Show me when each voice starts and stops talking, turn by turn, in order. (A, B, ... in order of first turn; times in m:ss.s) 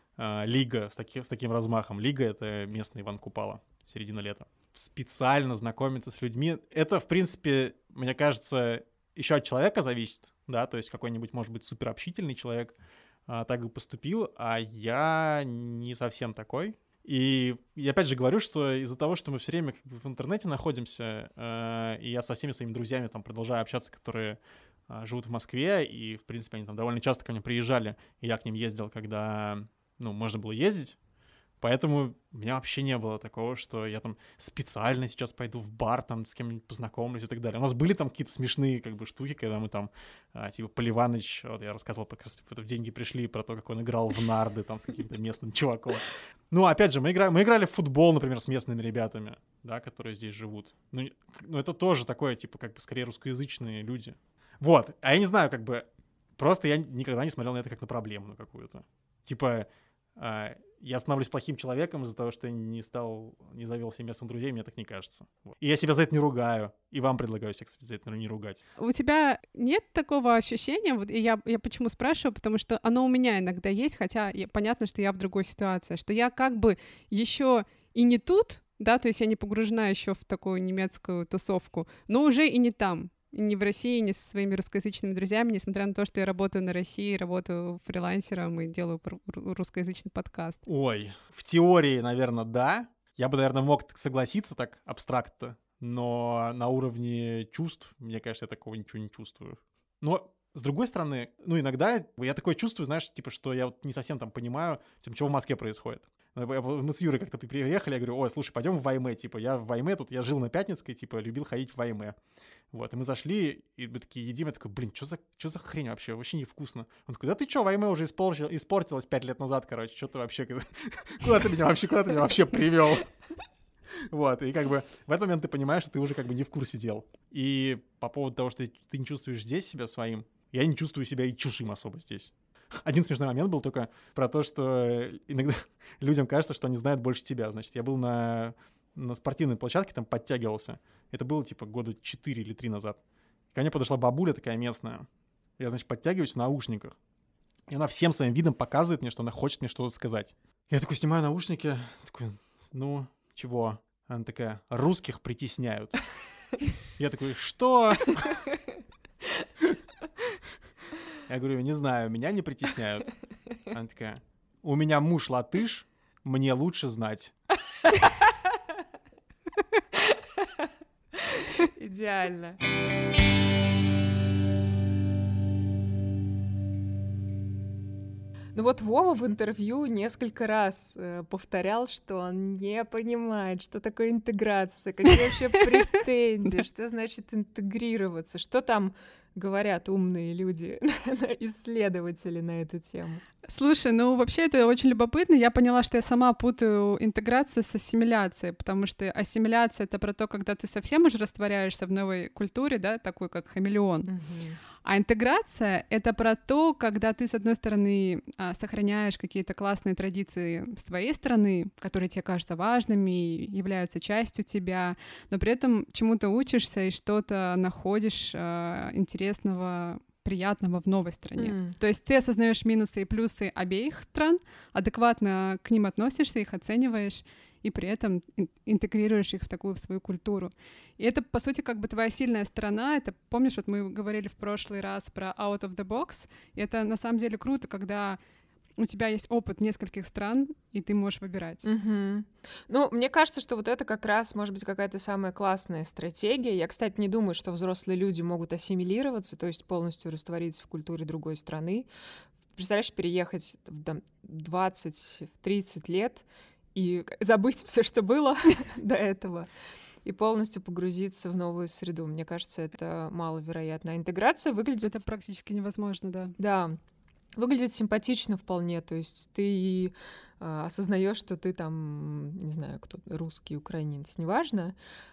0:00.2-0:12.8 A
0:13.3-0:31.0 A
0:31.6-1:08.6 A
1:08.8-1:30.6 B
1:30.6-1:52.2 A
1:52.7-2:03.1 A
2:04.1-2:23.0 A
2:23.5-2:25.1 A
2:25.6-2:27.0 A
2:27.7-2:36.1 A
2:37.0-2:38.4 A
2:41.3-2:47.3 A
2:51.3-2:52.6 C
2:58.5-3:13.2 C
3:13.5-3:24.1 B
3:24.0-3:24.6 C
3:24.8-3:58.2 B
3:41.4-3:41.8 C
3:58.8-4:01.6 B
4:01.6-4:11.9 C
4:12.5-4:19.5 C
4:20.0-4:25.0 C
4:24.8-4:26.3 B
4:26.4-4:26.8 C
4:27.4-4:34.8 C